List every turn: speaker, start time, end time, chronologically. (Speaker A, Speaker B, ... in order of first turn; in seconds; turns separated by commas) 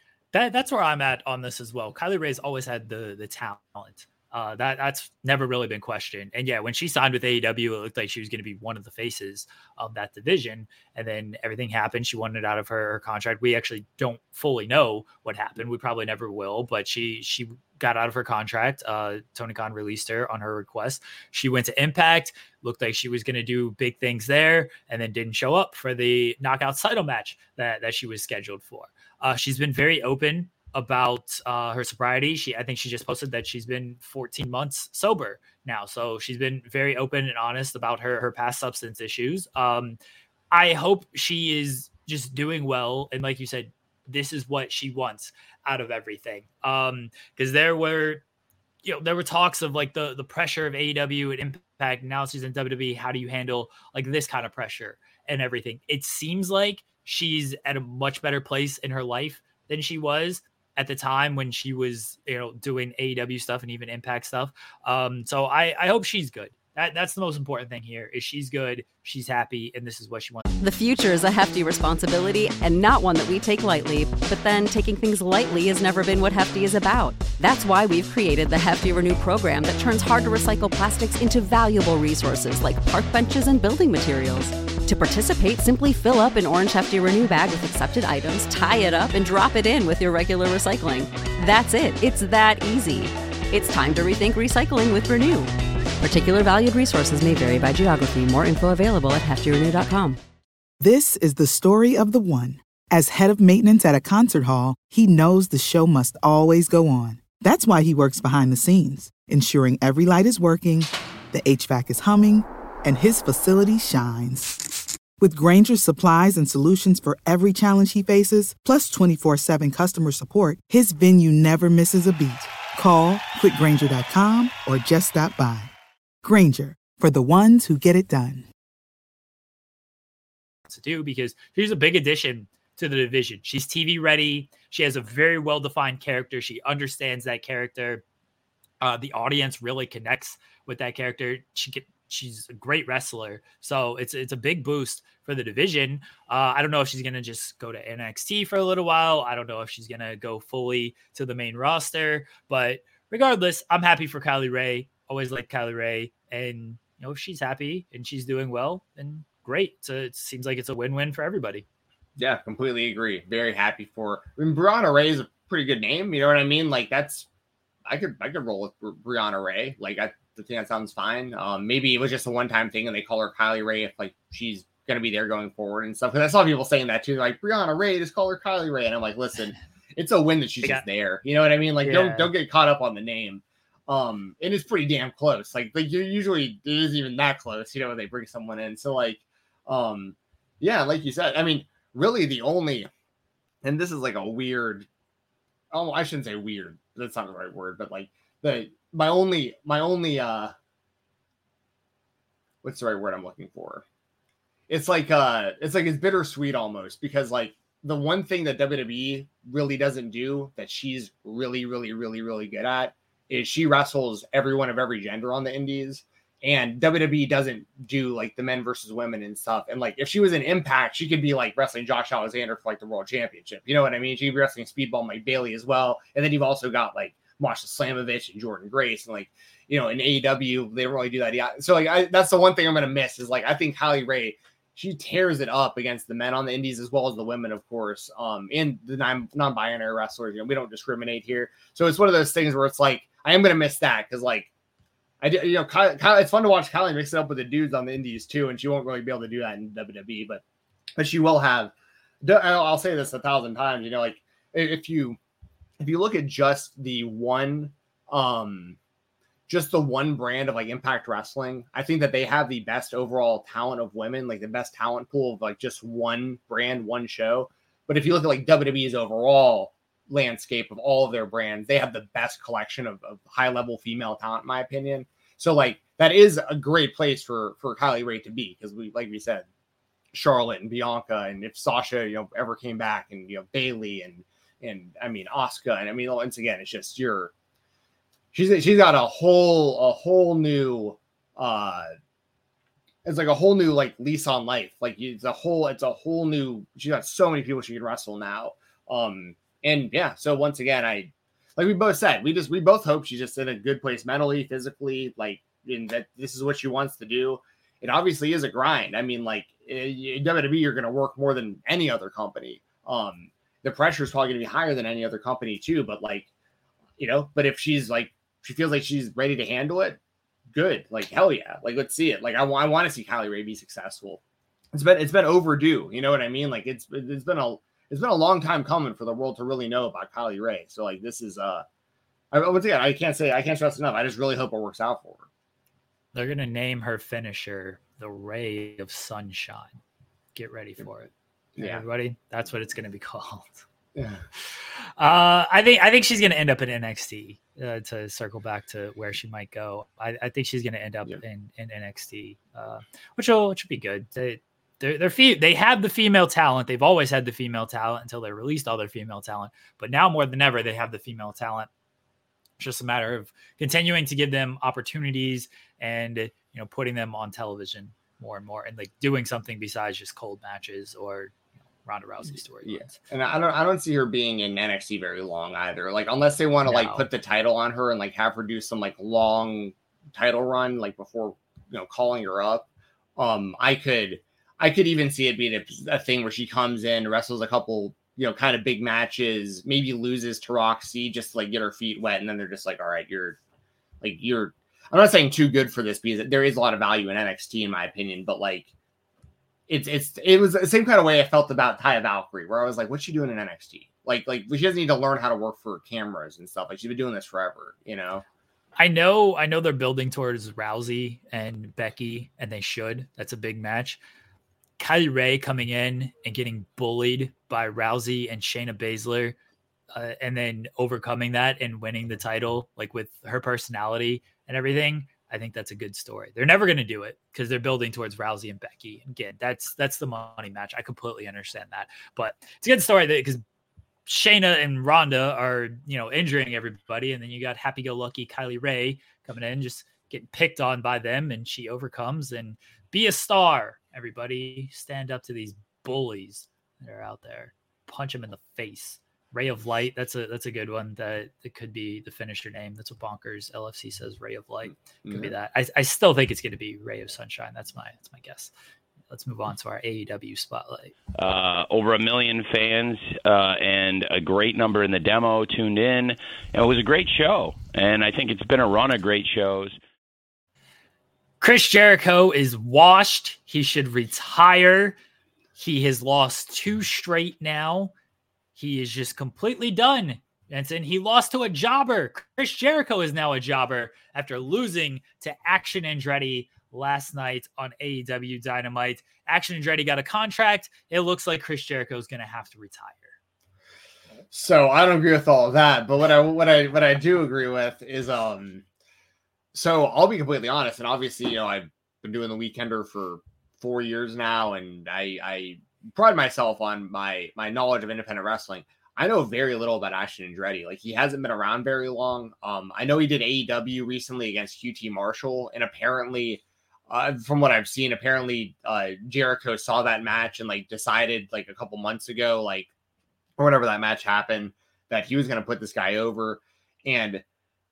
Speaker A: 0.3-40.0, Speaker A: 40.5-48.2, Speaker A: 48.8-70.5, Speaker B: 70.6-95.5, Speaker B: 96.0-100.2, Speaker C: 100.8-114.6, Speaker C: 115.2-125.7, Speaker C: 126.2-128.5, Speaker A: 130.7-138.0, Speaker A: 138.8-161.6, Speaker D: 162.2-167.3, Speaker D: 167.9-192.9, Speaker A: 181.8-182.3, Speaker D: 193.6-194.9, Speaker D: 195.7-200.5, Speaker D: 202.6-203.8, Speaker D: 204.7-244.5, Speaker D: 245.2-250.4, Speaker D: 251.0-255.2, Speaker D: 255.8-258.8, Speaker D: 259.5-279.4, Speaker D: 280.1-287.3, Speaker D: 288.3-291.9, Speaker D: 293.0-316.3, Speaker D: 317.0-320.0, Speaker D: 320.5-324.2, Speaker D: 324.7-331.6, Speaker D: 332.3-335.3, Speaker A: 336.1-339.8, Speaker A: 340.3-343.6, Speaker D: 341.6-341.8, Speaker D: 343.9-344.2, Speaker A: 345.0-361.7, Speaker A: 362.6-371.3, Speaker A: 371.8-373.0, Speaker D: 372.6-393.4, Speaker A: 376.6-377.1, Speaker D: 394.0-398.7, Speaker D: 399.7-408.2, Speaker A: 408.8-414.0, Speaker A: 414.8-419.4, Speaker A: 419.9-433.4, Speaker A: 434.1-458.5, Speaker D: 455.0-455.3, Speaker A: 459.1-460.9, Speaker E: 461.2-469.8, Speaker A: 471.4-475.0, Speaker A: 475.6-477.9, Speaker A: 478.6-493.1, Speaker D: 494.3-498.6, Speaker D: 499.5-522.7, Speaker D: 523.4-527.2